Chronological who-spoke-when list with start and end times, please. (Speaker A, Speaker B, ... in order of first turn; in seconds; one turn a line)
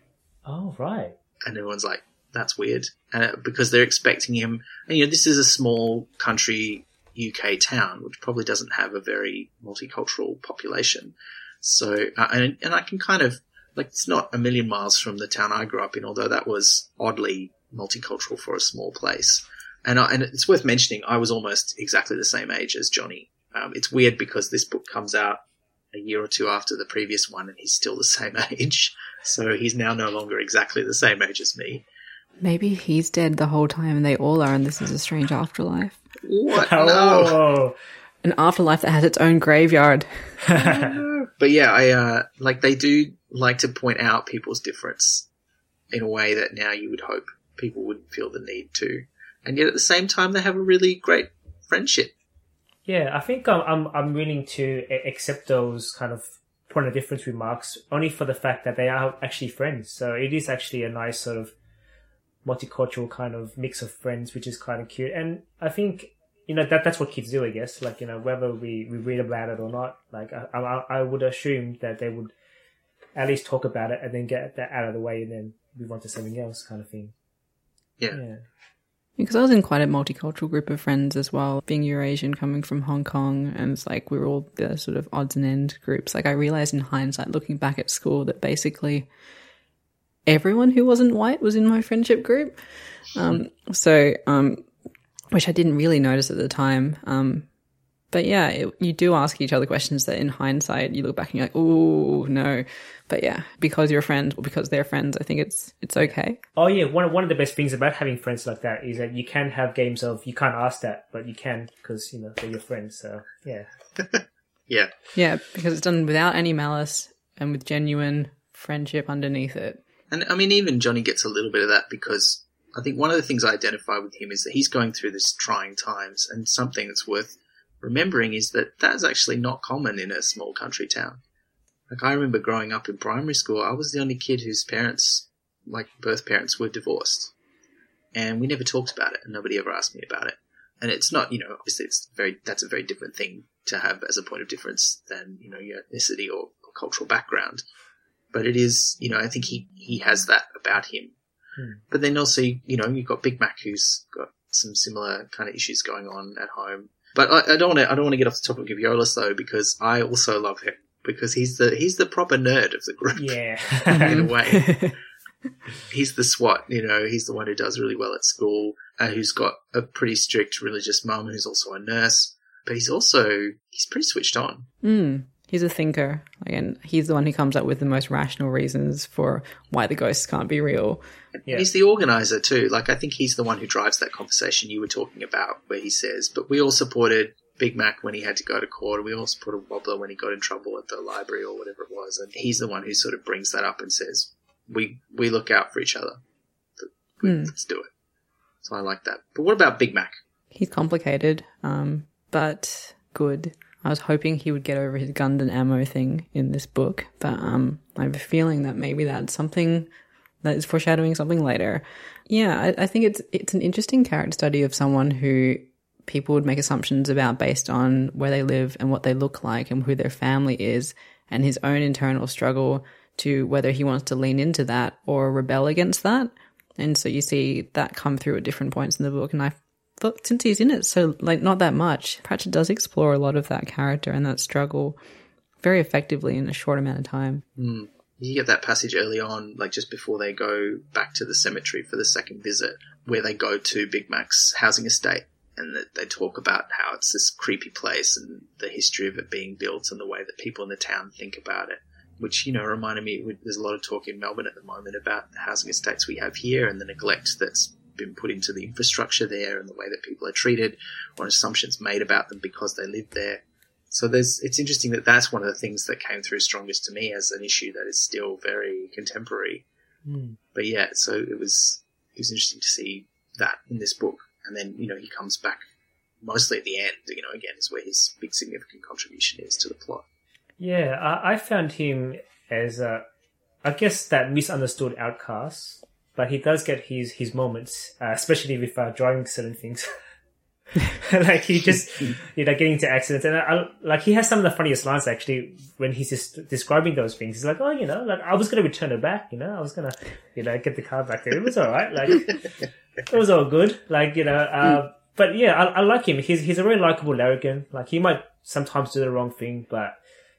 Speaker A: 0.5-1.1
Speaker B: 1.4-31.8
Speaker C: 32.4-36.0
Speaker B: 36.2-37.4
Speaker A: 36.5-37.7
Speaker C: 38.2-40.4
Speaker A: 40.5-41.0
Speaker B: 40.5-45.2
Speaker B: 45.9-52.1
Speaker A: 52.9-61.5
Speaker A: 62.4-72.3
Speaker A: 73.1-77.1
Speaker A: 78.1-78.4
Speaker C: 79.2-89.1
Speaker C: 90.2-92.6
Speaker C: 93.1-94.7
Speaker C: 95.3-97.5
Speaker C: 98.1-106.4
Speaker A: 106.6-113.7
Speaker B: 114.0-114.9
Speaker C: 115.1-119.8
Speaker B: 120.1-131.2
Speaker B: 131.9-137.3
Speaker B: 138.1-147.6
Speaker B: 148.3-151.1
Speaker A: 151.6-151.8
Speaker B: 151.9-163.4
Speaker A: 163.2-164.3
Speaker B: 163.9-164.9
Speaker C: 163.9-164.9
Speaker B: 165.9-174.7
Speaker C: 174.8-181.0
Speaker B: 181.3-196.2
Speaker B: 196.8-197.9
Speaker C: 197.2-197.5
Speaker B: 198.6-200.2
Speaker C: 200.5-209.9
Speaker C: 210.4-235.0
Speaker C: 235.6-237.4
Speaker B: 237.6-269.6
Speaker A: 270.0-270.4
Speaker B: 270.5-275.6
Speaker B: 276.2-280.0
Speaker A: 280.6-283.0
Speaker A: 283.6-289.9
Speaker A: 290.9-302.5
Speaker A: 303.1-309.9